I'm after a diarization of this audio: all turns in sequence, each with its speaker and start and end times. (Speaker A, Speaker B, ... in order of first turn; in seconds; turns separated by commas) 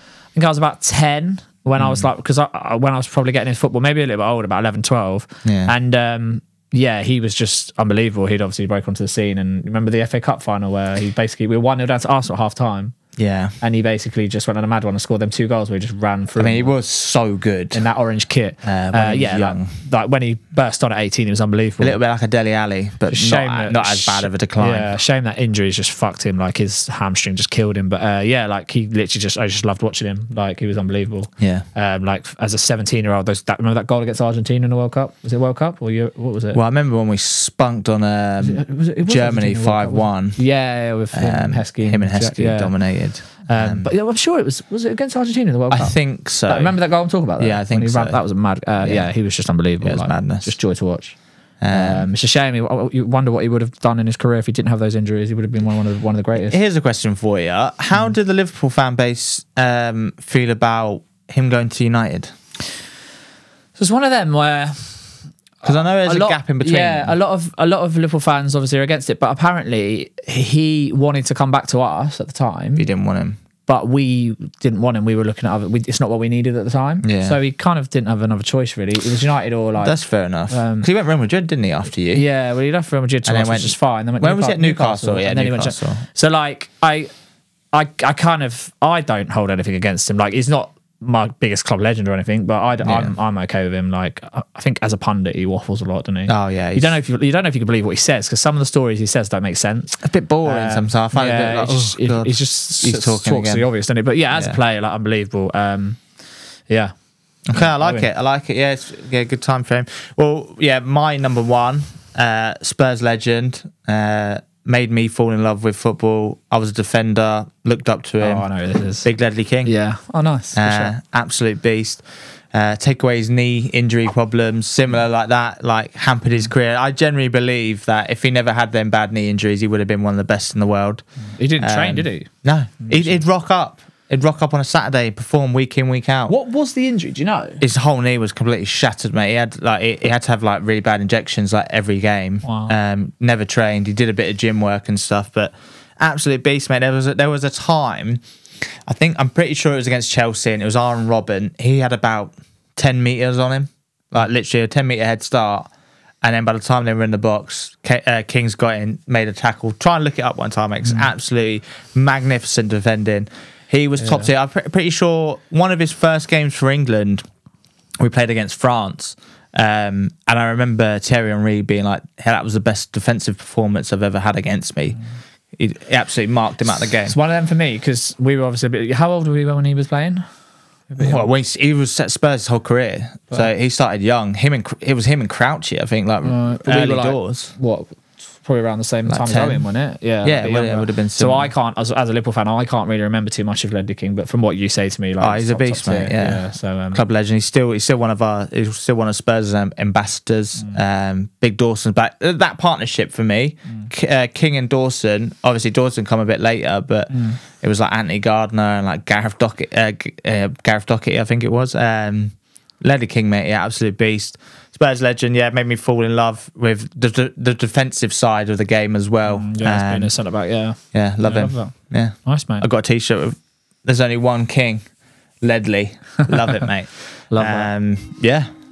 Speaker A: 0.3-12.9, Speaker B: 1.8-2.1, Speaker B: 5.4-5.7, Speaker B: 13.2-13.5, Speaker A: 13.6-16.7, Speaker B: 16.4-17.8, Speaker A: 17.7-22.0, Speaker B: 18.6-19.7, Speaker B: 21.8-24.9, Speaker A: 23.1-36.6, Speaker B: 31.4-31.6, Speaker B: 36.5-43.9, Speaker A: 38.4-56.6, Speaker B: 45.7-49.1, Speaker B: 49.8-50.5, Speaker B: 51.6-52.1, Speaker B: 56.4-62.3, Speaker A: 63.8-72.8, Speaker B: 65.6-67.2, Speaker B: 72.8-73.4, Speaker A: 73.7-80.0, Speaker B: 77.0-77.4, Speaker B: 79.8-82.2, Speaker A: 80.5-80.9, Speaker A: 82.1-87.1, Speaker B: 83.2-86.0, Speaker A: 87.7-106.0, Speaker B: 92.8-93.1, Speaker B: 96.3-97.0, Speaker B: 100.0-103.7, Speaker B: 104.3-104.6, Speaker A: 106.7-108.1, Speaker B: 107.5-118.5, Speaker A: 118.2-119.1, Speaker B: 119.0-119.8, Speaker A: 119.6-120.9, Speaker B: 120.5-131.0, Speaker A: 131.4-132.3, Speaker B: 131.6-136.3, Speaker A: 132.9-133.2, Speaker A: 136.3-137.6, Speaker B: 137.6-148.2, Speaker A: 142.4-142.7, Speaker B: 148.9-155.7, Speaker B: 156.2-167.2, Speaker A: 160.8-161.1, Speaker A: 164.0-164.3, Speaker B: 168.0-175.0, Speaker B: 175.6-177.1, Speaker A: 177.0-180.2, Speaker A: 180.9-181.3, Speaker B: 181.0-187.5, Speaker A: 186.2-197.0, Speaker B: 189.1-189.7, Speaker B: 190.2-191.5, Speaker B: 195.2-220.2, Speaker A: 207.1-207.4, Speaker A: 219.2-222.7, Speaker B: 220.9-224.8, Speaker B: 225.4-228.5, Speaker A: 227.3-227.7